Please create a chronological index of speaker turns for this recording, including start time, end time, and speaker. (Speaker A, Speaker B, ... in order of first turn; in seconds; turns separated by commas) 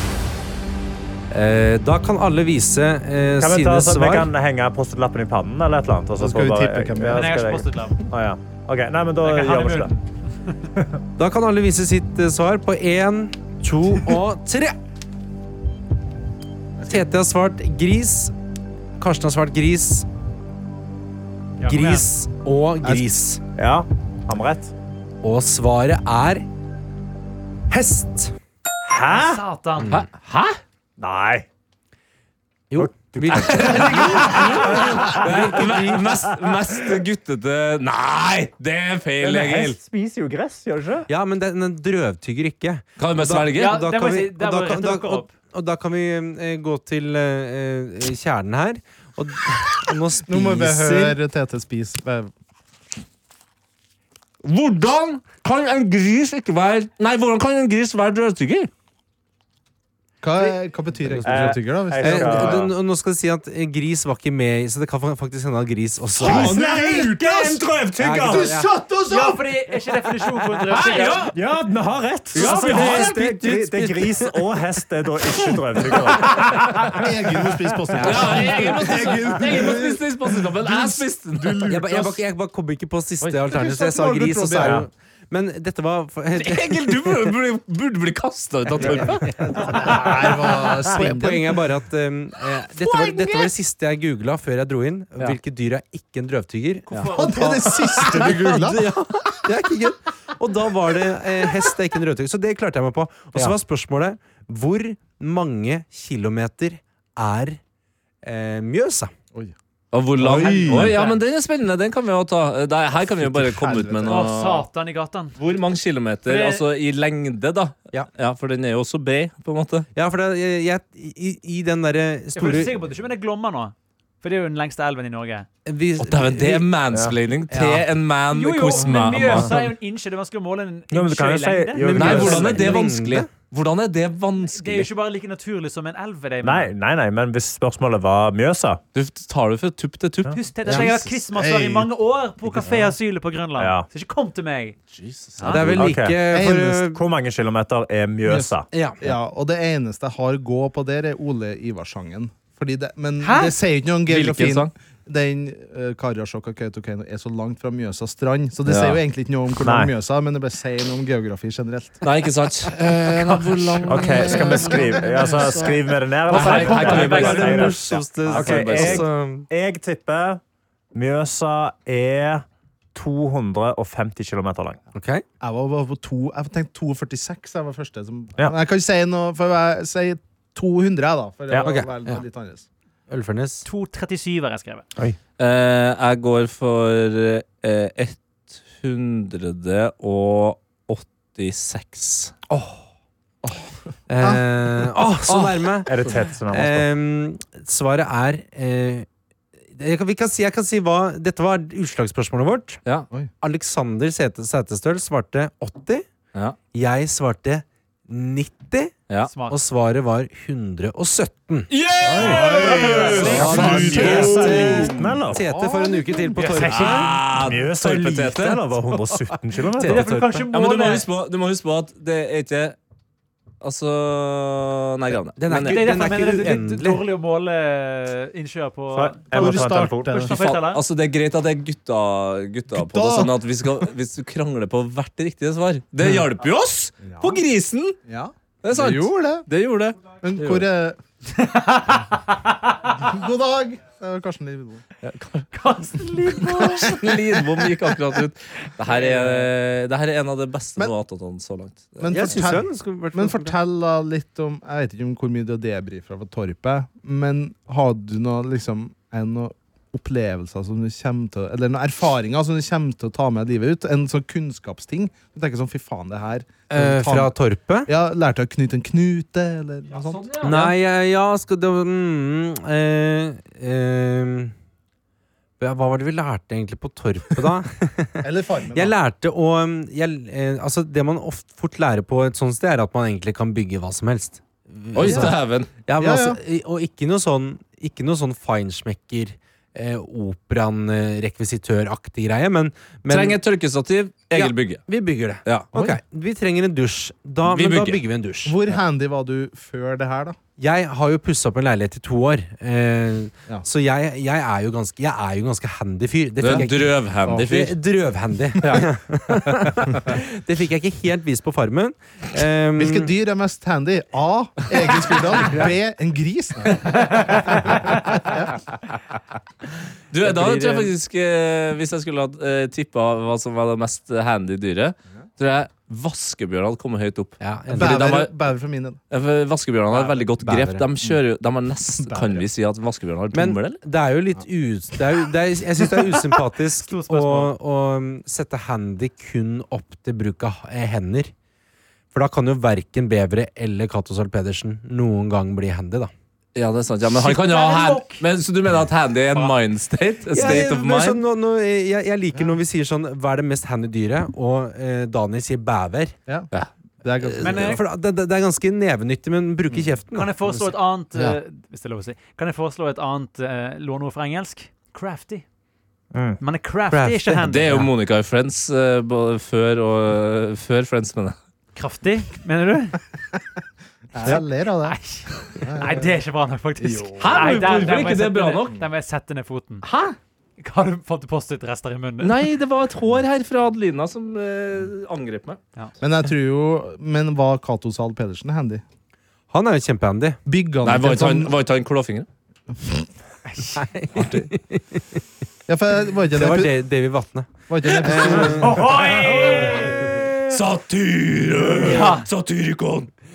Speaker A: 1.3-4.3, Speaker B: 3.4-9.9, Speaker C: 6.2-7.5, Speaker D: 7.1-8.0, Speaker D: 9.2-10.7, Speaker A: 11.2-14.8, Speaker A: 16.9-18.3, Speaker A: 19.0-20.1, Speaker D: 21.6-22.1, Speaker A: 21.6-23.4, Speaker C: 22.8-23.1, Speaker B: 23.6-24.7, Speaker A: 25.2-26.4, Speaker A: 27.7-28.3, Speaker B: 28.9-29.4, Speaker D: 29.1-29.9, Speaker A: 29.8-30.1, Speaker E: 29.9-30.6, Speaker B: 31.0-31.4, Speaker A: 32.7-36.0, Speaker B: 32.7-35.6, Speaker E: 33.3-39.8, Speaker B: 39.2-41.1, Speaker A: 41.1-51.2, Speaker E: 43.0-43.8, Speaker D: 43.5-45.3, Speaker C: 50.2-52.3, Speaker E: 54.4-58.7, Speaker C: 60.2-62.7, Speaker A: 61.1-68.7, Speaker B: 61.2-62.7, Speaker C: 66.2-67.4, Speaker B: 66.2-68.6, Speaker C: 68.2-69.4, Speaker D: 69.0-71.3, Speaker E: 70.7-71.3, Speaker B: 71.3-76.9, Speaker A: 72.3-74.6, Speaker E: 72.3-73.2, Speaker A: 76.2-76.5, Speaker C: 76.3-81.8, Speaker B: 77.9-78.3, Speaker A: 77.9-78.7, Speaker E: 78.0-81.6, Speaker B: 81.4-82.1, Speaker A: 81.6-87.3, Speaker C: 83.2-84.9, Speaker E: 86.3-89.4, Speaker A: 88.8-107.6, Speaker C: 88.8-91.6, Speaker E: 92.8-93.5, Speaker D: 96.9-97.4, Speaker C: 97.1-99.4, Speaker A: 108.2-109.1, Speaker E: 109.9-114.7, Speaker C: 110.2-111.1, Speaker A: 110.2-111.1, Speaker C: 113.2-114.4, Speaker D: 114.1-115.4, Speaker E: 115.4-119.9, Speaker D: 116.2-116.6, Speaker A: 119.9-122.8, Speaker D: 122.3-125.5, Speaker A: 125.7-126.7, Speaker E: 126.0-129.5, Speaker C: 127.5-127.8, Speaker D: 128.3-132.2, Speaker B: 129.2-129.5, Speaker B: 130.9-132.8, Speaker A: 131.8-133.3, Speaker E: 131.9-134.9, Speaker D: 134.5-136.7, Speaker B: 136.4-138.8, Speaker E: 138.9-140.8, Speaker D: 140.3-144.8, Speaker C: 140.7-141.9, Speaker B: 143.6-143.9, Speaker E: 144.9-145.7, Speaker D: 145.4-145.6, Speaker A: 145.5-147.0, Speaker C: 145.5-146.9, Speaker B: 145.7-146.3, Speaker B: 146.8-148.7, Speaker C: 148.2-162.0, Speaker A: 148.7-149.1, Speaker D: 153.2-153.6, Speaker E: 154.1-154.7, Speaker E: 158.7-159.0, Speaker B: 159.6-159.9, Speaker E: 162.0-165.5, Speaker D: 163.2-165.7, Speaker B: 163.9-170.4, Speaker C: 164.4-165.7, Speaker D: 166.3-167.7, Speaker E: 166.3-169.1, Speaker A: 166.3-169.5, Speaker B: 170.9-174.8, Speaker A: 174.9-175.2, Speaker C: 175.4-182.7, Speaker A: 181.6-182.2, Speaker A: 183.1-183.7, Speaker D: 183.6-184.9, Speaker E: 185.4-192.3, Speaker C: 193.4-194.4, Speaker A: 194.1-199.1, Speaker E: 195.3-195.8, Speaker B: 195.9-196.8, Speaker A: 199.7-202.8, Speaker A: 203.4-206.1, Speaker A: 206.7-208.9, Speaker D: 209.3-209.6, Speaker A: 209.5-211.7, Speaker E: 211.7-214.9, Speaker B: 212.0-215.4, Speaker C: 212.1-216.7, Speaker D: 212.6-213.7, Speaker A: 213.2-217.1, Speaker D: 216.4-217.1, Speaker E: 216.7-218.6, Speaker B: 217.3-220.1, Speaker A: 219.7-220.5, Speaker D: 219.8-221.1, Speaker E: 220.5-222.8, Speaker E: 223.6-225.9, Speaker A: 225.4-227.0, Speaker D: 225.6-230.8, Speaker B: 228.9-230.3, Speaker C: 229.3-230.3, Speaker E: 230.3-238.0, Speaker C: 232.7-233.9, Speaker C: 237.0-237.4, Speaker C: 238.1-239.4, Speaker E: 238.6-240.7, Speaker C: 240.2-241.0, Speaker D: 241.3-242.9, Speaker C: 242.9-244.8, Speaker E: 245.0-245.5, Speaker D: 245.5-247.0, Speaker E: 246.4-252.5, Speaker C: 246.6-247.4, Speaker C: 248.9-249.5, Speaker C: 252.0-267.3, Speaker A: 252.1-253.6, Speaker A: 266.7-267.9, Speaker C: 267.9-270.7, Speaker E: 269.9-270.7, Speaker A: 270.4-274.5, Speaker A: 275.6-293.4, Speaker C: 278.2-278.9, Speaker E: 284.9-285.7, Speaker C: 285.0-285.4, Speaker C: 286.0-286.4, Speaker E: 293.1-294.9, Speaker A: 294.3-298.6, Speaker E: 297.4-298.0, Speaker C: 298.4-300.4, Speaker A: 300.6-313.1, Speaker E: 306.4-307.7, Speaker E: 308.6-308.9, Speaker C: 312.8-318.6, Speaker E: 320.1-328.3, Speaker A: 320.2-320.9, Speaker A: 327.4-328.2, Speaker C: 327.7-329.0, Speaker E: 329.1-333.8, Speaker A: 330.4-330.9, Speaker C: 332.0-332.4, Speaker A: 333.3-341.3, Speaker D: 336.8-337.5, Speaker A: 342.1-346.1, Speaker E: 346.5-351.2, Speaker D: 347.1-348.2, Speaker A: 350.3-356.1, Speaker C: 357.0-357.8, Speaker A: 357.2-361.4, Speaker D: 357.4-357.8, Speaker D: 360.1-365.4, Speaker B: 366.1-366.4, Speaker D: 366.4-367.8, Speaker A: 366.9-367.9, Speaker E: 367.4-371.4, Speaker D: 371.8-373.0, Speaker C: 374.1-375.0, Speaker D: 374.8-379.9, Speaker C: 375.5-376.2, Speaker C: 376.8-377.9, Speaker E: 377.2-378.8, Speaker E: 379.8-380.1, Speaker D: 380.6-382.4, Speaker E: 382.2-385.6, Speaker C: 386.0-388.8, Speaker A: 389.5-390.4, Speaker C: 390.4-391.5, Speaker E: 390.8-392.3, Speaker A: 393.8-395.2, Speaker C: 394.1-394.5, Speaker C: 395.7-396.8, Speaker A: 396.3-398.9, Speaker C: 397.7-398.9, Speaker D: 398.5-400.1, Speaker E: 400.5-403.1, Speaker D: 401.8-402.3